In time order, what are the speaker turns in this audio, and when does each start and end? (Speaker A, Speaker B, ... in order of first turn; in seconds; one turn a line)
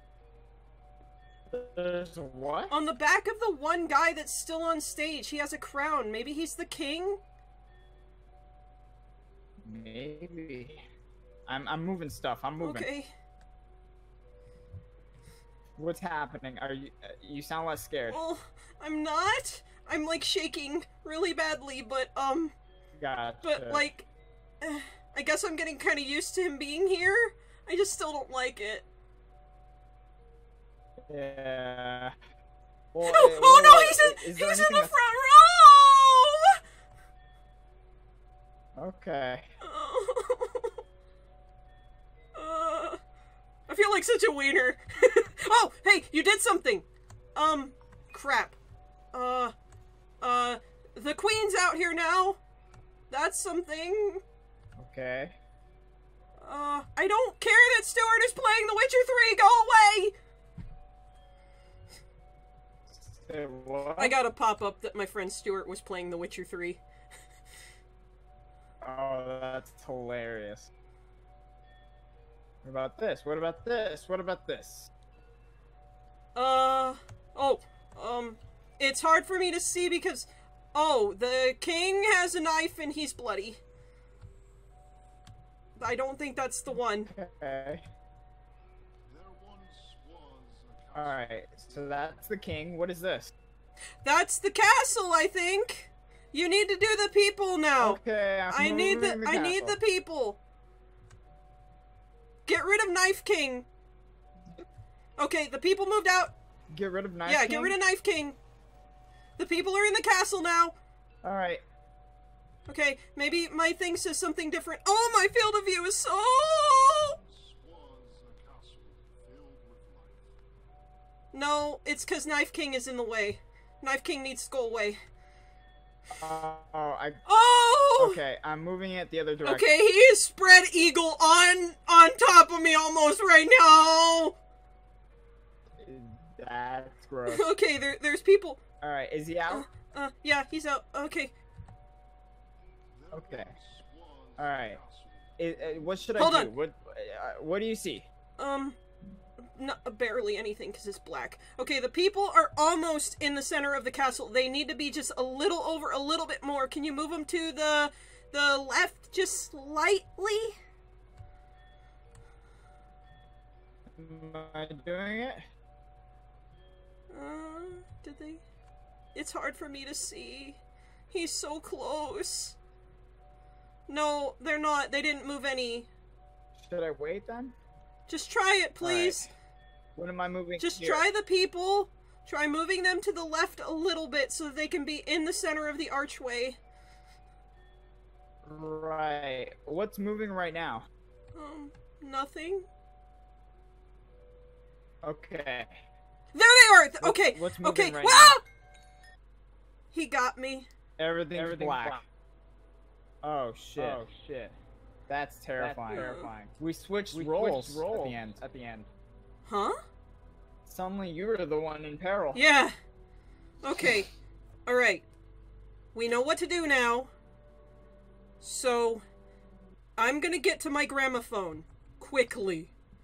Speaker A: 1.5-2.7
Speaker B: 2.7-7.2
Speaker A: 9.6-10.8
Speaker A: 11.5-12.9
Speaker B: 12.6-13.1
Speaker A: 15.8-18.2
Speaker B: 18.1-22.5
Speaker A: 23.0-23.9
Speaker B: 23.4-24.1
Speaker B: 24.6-28.9
Speaker A: 31.1-32.1
Speaker A: 32.9-34.9
Speaker B: 33.0-36.6
Speaker A: 38.8-39.4
Speaker B: 39.6-40.8
Speaker B: 42.3-43.0
Speaker B: 43.7-48.6
Speaker B: 49.1-49.5
Speaker B: 50.2-52.4
Speaker B: 53.1-54.2
Speaker A: 54.8-55.4
Speaker B: 56.4-60.1
Speaker A: 62.9-64.2
Speaker B: 64.0-66.8
Speaker A: 68.8-70.7
Speaker A: 72.6-74.9
Speaker B: 76.3-83.6
Speaker B: 85.8-87.1
Speaker A: 87.0-87.8
Speaker C: 89.1-92.3
Speaker A: 90.9-93.3
Speaker B: 94.0-100.4
Speaker A: 97.8-99.8
Speaker B: 102.5-103.7
Speaker B: 105.2-106.3
Speaker A: 106.7-107.8
Speaker B: 107.2-108.4
Speaker B: 109.4-110.7
Speaker A: 111.2-111.6
Speaker B: 112.7-117.2
Speaker C: 116.5-120.3
Speaker B: 121.3-125.0
Speaker A: 126.1-127.2
Speaker B: 127.2-128.2
Speaker A: 128.0-129.7
Speaker B: 129.4-134.3
Speaker A: 135.8-137.5
Speaker B: 137.3-138.6
Speaker A: 138.8-139.7
Speaker B: 139.5-141.3
Speaker C: 142.9-146.1
Speaker A: 143.1-143.5
Speaker A: 144.4-144.8
Speaker A: 145.4-148.1
Speaker B: 146.2-146.5
Speaker B: 148.4-148.8
Speaker B: 149.4-160.6
Speaker A: 164.0-165.4
Speaker B: 167.1-168.4
Speaker B: 169.1-170.6
Speaker B: 171.1-172.6
Speaker B: 173.9-175.9
Speaker A: 176.6-177.5
Speaker B: 178.1-179.3
Speaker A: 178.8-179.3
Speaker A: 179.9-181.0
Speaker B: 180.6-186.6
Speaker A: 188.4-190.9
Speaker B: 191.3-192.7
Speaker A: 195.0-195.8
Speaker B: 196.3-198.4
Speaker A: 197.0-198.4
Speaker B: 199.9-200.7
Speaker A: 201.0-202.0
Speaker D: 201.3-202.0
Speaker A: 203.2-204.0
Speaker D: 203.8-204.5
Speaker A: 205.1-208.4
Speaker D: 205.6-206.3
Speaker B: 205.9-206.3
Speaker D: 207.1-208.9
Speaker B: 209.5-209.8
Speaker A: 210.7-212.4
Speaker B: 212.3-212.7
Speaker B: 213.6-214.1
Speaker B: 214.7-215.0
Speaker B: 215.9-217.1
Speaker B: 218.4-219.0
Speaker B: 220.0-222.7